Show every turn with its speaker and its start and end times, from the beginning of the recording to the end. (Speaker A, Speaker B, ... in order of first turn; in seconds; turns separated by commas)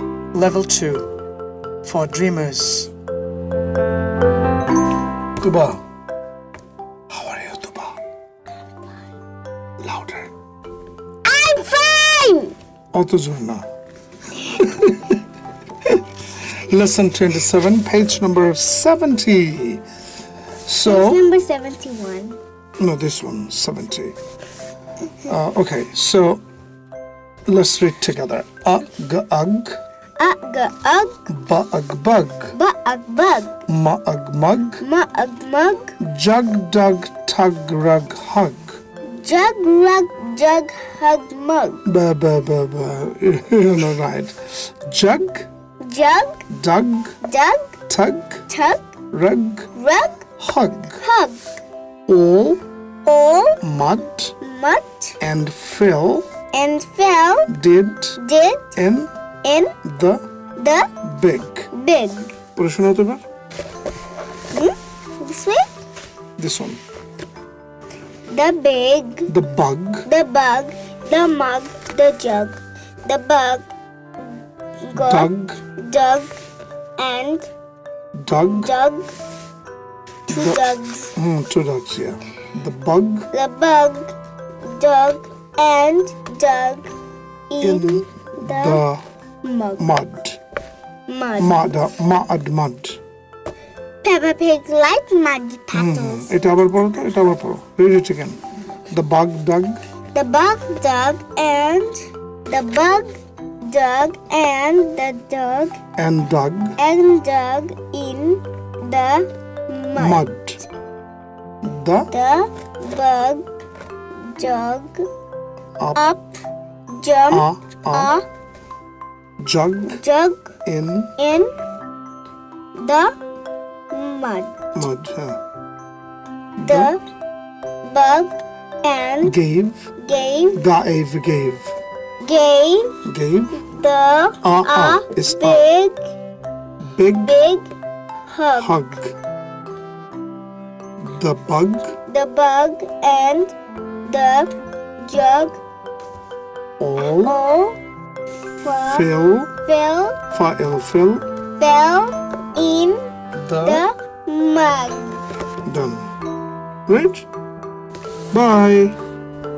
Speaker A: 0.3-1.1, Speaker A: 1.8-2.9, Speaker A: 5.4-5.8, Speaker A: 7.1-8.0, Speaker A: 9.8-10.3, Speaker B: 11.2-12.5, Speaker A: 12.9-13.7, Speaker A: 14.3-15.2, Speaker A: 15.8-19.8, Speaker A: 20.6-21.2, Speaker B: 20.8-22.4, Speaker A: 22.8-24.1, Speaker A: 25.2-26.4, Speaker A: 27.5-29.8, Speaker B: 30.2-31.2, Speaker A: 31.3-32.5, Speaker B: 32.5-33.6, Speaker A: 33.7-34.8, Speaker B: 34.8-35.9, Speaker A: 36.0-38.8, Speaker B: 39.1-41.8, Speaker A: 41.9-45.5, Speaker B: 45.8-46.4, Speaker A: 46.5-47.2, Speaker B: 47.2-47.8, Speaker A: 47.9-48.5, Speaker B: 48.5-48.9, Speaker A: 49.1-49.7, Speaker B: 49.7-50.3, Speaker A: 50.4-51.0, Speaker B: 51.0-51.4, Speaker A: 52.1-52.6, Speaker B: 53.0-53.6, Speaker A: 53.6-54.4, Speaker B: 54.4-55.2, Speaker A: 55.2-56.2, Speaker B: 56.5-57.5, Speaker A: 57.5-58.2, Speaker B: 58.2-58.8, Speaker A: 58.8-59.1, Speaker B: 59.4-59.7, Speaker A: 59.8-60.2, Speaker B: 60.6-60.9, Speaker A: 61.0-61.7, Speaker B: 61.7-62.4, Speaker A: 62.5-63.2, Speaker B: 64.5-65.8, Speaker A: 66.4-66.8, Speaker B: 68.3-69.3, Speaker A: 69.3-70.1, Speaker B: 70.0-73.7, Speaker B: 74.8-76.3, Speaker A: 74.9-75.6, Speaker B: 77.0-77.5, Speaker A: 78.2-78.7, Speaker B: 78.5-79.1, Speaker B: 80.3-81.1, Speaker A: 80.3-83.3, Speaker B: 83.3-84.1, Speaker B: 84.6-86.9, Speaker B: 87.5-88.8, Speaker A: 87.6-89.0, Speaker B: 89.4-89.9, Speaker A: 89.8-90.4, Speaker B: 91.1-91.7, Speaker A: 91.4-93.0, Speaker B: 94.0-96.3, Speaker A: 95.7-99.8, Speaker B: 100.1-105.8, Speaker A: 106.0-106.8, Speaker B: 106.8-110.3, Speaker A: 110.0-110.6, Speaker A: 111.6-112.1, Speaker B: 112.1-113.5, Speaker B: 114.2-115.1, Speaker B: 115.9-116.4, Speaker B: 116.9-118.2, Speaker A: 117.3-118.1, Speaker A: 119.4-120.0, Speaker B: 119.9-120.5, Speaker A: 120.6-121.1, Speaker B: 121.2-121.5, Speaker B: 122.8-123.1, Speaker B: 123.9-124.6, Speaker A: 124.7-125.4, Speaker A: 126.6-126.9, Speaker B: 126.6-127.0, Speaker B: 127.8-129.4, Speaker A: 129.2-129.9, Speaker B: 130.0-130.7, Speaker A: 130.5-131.7, Speaker B: 132.2-132.9, Speaker A: 133.0-133.6, Speaker B: 133.6-136.0, Speaker A: 134.4-135.6, Speaker A: 136.8-137.3, Speaker B: 137.2-137.7, Speaker B: 138.3-138.8, Speaker A: 138.6-139.1, Speaker A: 141.0-141.9, Speaker B: 142.1-143.5, Speaker B: 144.1-144.5, Speaker B: 145.0-145.6, Speaker A: 146.8-147.4, Speaker B: 147.0-147.8, Speaker B: 148.6-149.1, Speaker A: 148.9-149.5, Speaker B: 149.6-150.2, Speaker A: 150.3-151.2, Speaker B: 151.6-153.1, Speaker A: 153.3-153.8, Speaker B: 153.6-155.2, Speaker A: 155.7-156.1, Speaker A: 156.9-157.3, Speaker A: 158.3-159.0